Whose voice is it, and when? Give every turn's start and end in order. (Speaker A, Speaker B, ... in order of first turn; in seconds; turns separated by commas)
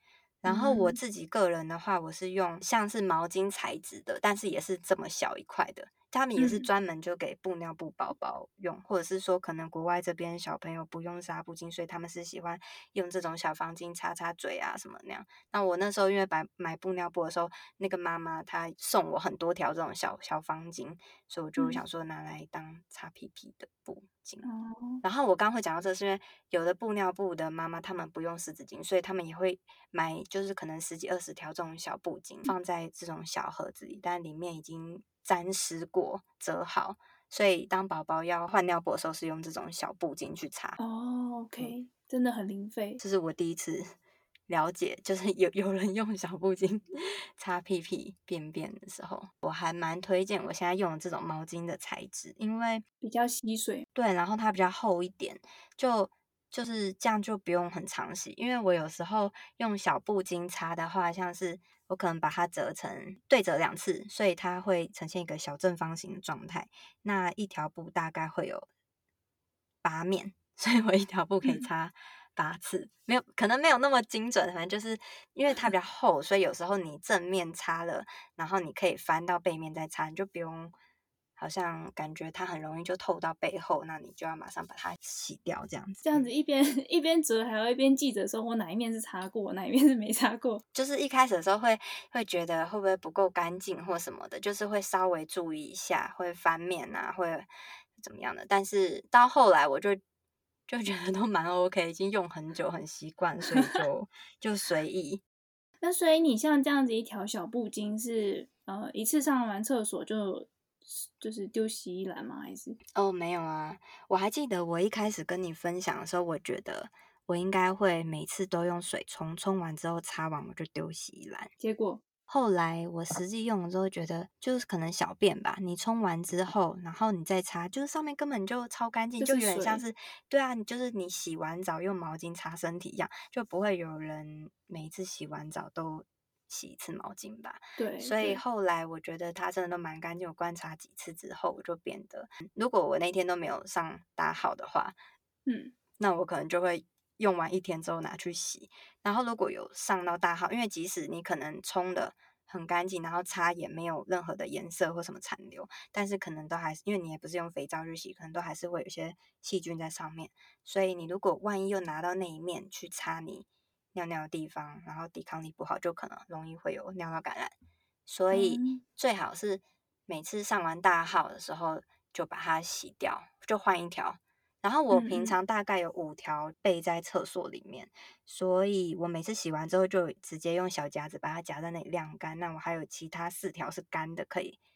Speaker A: 0.4-24.4, Speaker B: 0.5-1.0, Speaker B: 6.4-6.6, Speaker B: 21.6-21.8, Speaker B: 24.4-25.0, Speaker A: 25.0-40.8, Speaker B: 40.8-43.0, Speaker A: 43.0-43.9, Speaker A: 44.5-52.8, Speaker B: 53.0-53.8, Speaker A: 53.9-68.7, Speaker A: 69.8-80.7, Speaker A: 81.4-86.3, Speaker B: 86.0-90.6, Speaker A: 90.7-100.0, Speaker A: 100.7-105.2, Speaker B: 103.5-103.8, Speaker B: 105.8-112.8, Speaker A: 112.9-121.5, Speaker B: 121.6-122.0, Speaker A: 122.3-144.9, Speaker B: 129.2-129.8, Speaker B: 137.8-138.4, Speaker B: 145.4-145.7, Speaker A: 146.0-167.5, Speaker A: 168.1-184.6, Speaker B: 168.3-168.8, Speaker B: 174.9-175.3